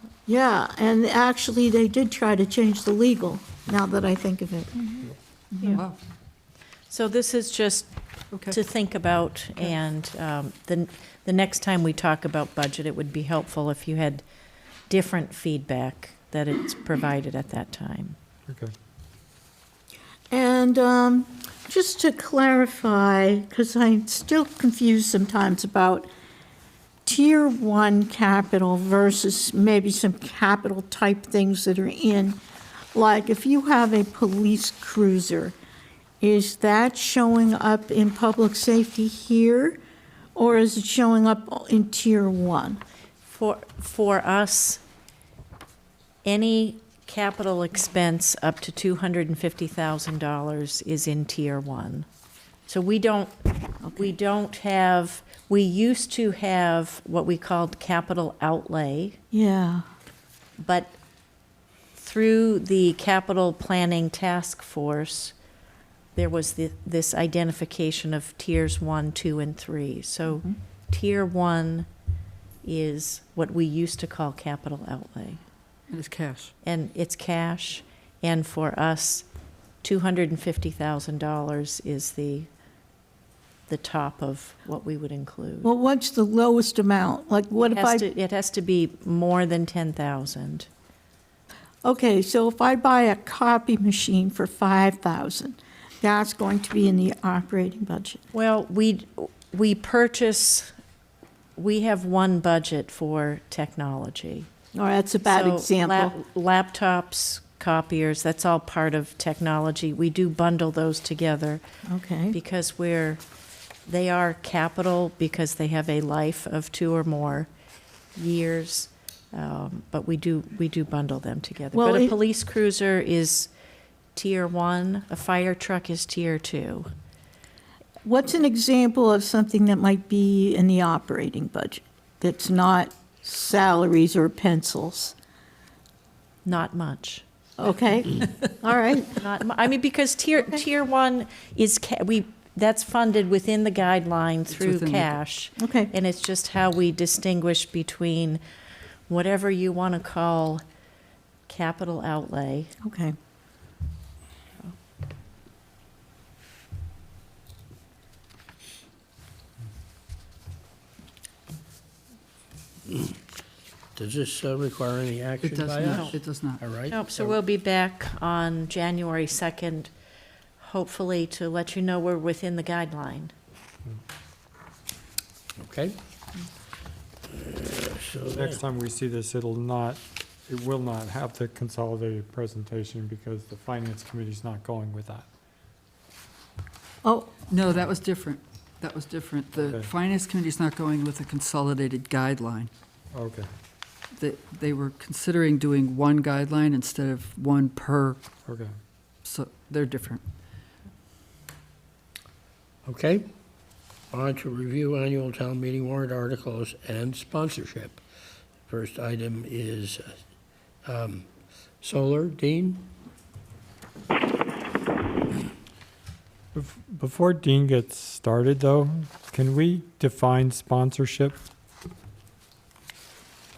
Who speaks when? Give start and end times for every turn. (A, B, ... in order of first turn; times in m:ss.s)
0:00.3-0:04.9 A
0:05.5-0:06.0 B
0:06.9-0:07.9 C
0:08.5-0:14.2 C
0:14.9-0:18.2 C
0:18.5-0:18.7 D
0:20.3-0:26.1 A
0:27.0-0:32.4 A
0:32.9-0:35.5 A
0:36.2-0:39.8 A
0:40.4-0:42.8 A
0:43.3-0:44.8 C
0:46.2-0:52.0 C
0:52.7-0:59.2 C
0:59.3-0:59.8 A
1:00.6-1:00.9 C
1:02.0-1:05.3 C
1:06.2-1:11.9 C
1:12.6-1:15.4 C
1:15.9-1:16.5 B
1:16.6-1:19.2 C
1:19.8-1:22.5 C
1:23.7-1:25.7 C
1:25.6-1:28.1 A
1:27.7-1:30.7 C
1:31.8-1:38.2 A
1:38.3-1:40.7 C
1:41.6-1:44.5 C
1:44.7-1:46.2 A
1:45.2-1:51.6 C
1:51.8-1:52.4 A
1:52.3-1:53.2 C
1:53.8-1:57.5 C
1:58.1-2:03.5 C
2:01.7-2:02.2 A
2:04.2-2:06.9 C
2:08.0-2:15.1 A
2:16.4-2:17.2 C
2:17.6-2:19.2 A
2:19.0-2:28.4 C
2:24.5-2:25.2 B
2:25.6-2:25.9 A
2:29.1-2:30.6 C
2:31.5-2:32.7 C
2:32.8-2:33.1 A
2:42.9-2:43.1 E
2:44.0-2:47.4 E
2:45.4-2:46.6 B
2:45.9-2:46.2 C
2:46.9-2:49.9 C
2:50.6-2:53.3 C
2:55.6-2:56.0 E
2:57.4-2:58.6 E
2:58.2-3:05.3 D
3:07.0-3:07.3 A
3:07.5-3:12.7 B
3:09.5-3:09.9 D
3:13.1-3:13.5 D
3:14.2-3:18.2 B
3:18.4-3:18.7 D
3:19.2-3:20.2 B
3:22.8-3:23.3 E
3:24.1-3:28.0 E
3:28.7-3:30.2 E
3:30.8-3:31.3 E
3:31.8-3:32.9 E
3:36.5-3:41.4 D